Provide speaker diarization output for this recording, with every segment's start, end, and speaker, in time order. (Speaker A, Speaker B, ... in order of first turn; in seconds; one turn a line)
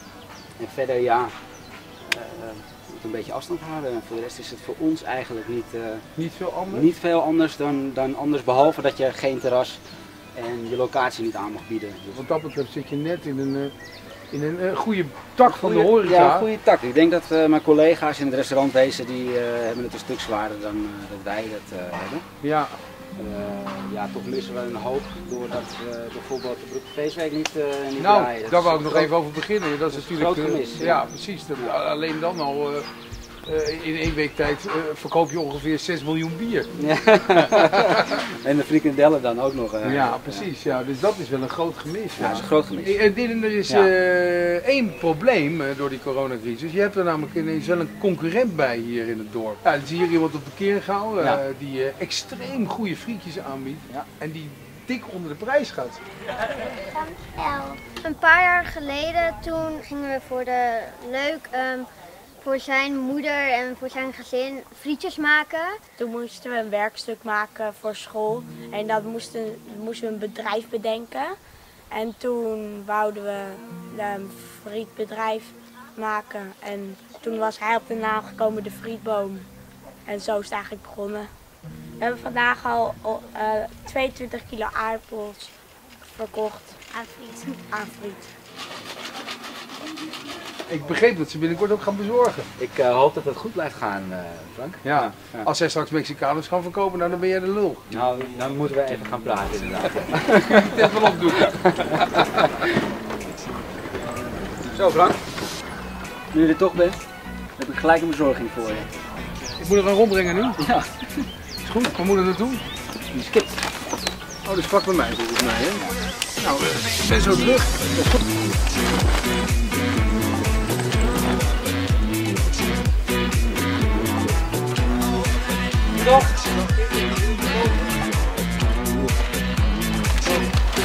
Speaker A: 0.6-1.3
Speaker A: 2.0-6.0
Speaker B: 6.2-6.9
Speaker A: 6.7-9.8
Speaker A: 10.3-12.2
Speaker B: 12.1-13.7
Speaker B: 14.3-16.5
Speaker A: 15.4-22.2
Speaker B: 22.4-22.8
Speaker A: 23.2-29.1
Speaker B: 28.0-32.9
Speaker A: 29.9-31.0
Speaker B: 33.5-36.7
Speaker A: 36.8-40.5
Speaker B: 37.3-37.6
Speaker B: 39.8-56.0
Speaker A: 42.2-43.0
Speaker C: 56.7-61.9
Speaker C: 62.4-65.8
Speaker D: 66.0-71.3
Speaker D: 71.9-79.5
Speaker D: 80.0-81.3
Speaker D: 82.0-88.3
Speaker B: 90.7-92.5
Speaker A: 92.6-95.5
Speaker B: 94.8-97.9
Speaker A: 97.9-100.9
Speaker B: 100.5-102.1
Speaker A: 101.5-102.4
Speaker B: 104.7-105.2
Speaker A: 106.3-107.0
Speaker A: 107.6-108.9
Speaker B: 109.6-110.6
Speaker A: 110.6-111.3
Speaker B: 111.6-112.6
Speaker A: 113.1-113.5
Speaker B: 114.4-118.0
Speaker A: 125.9-127.6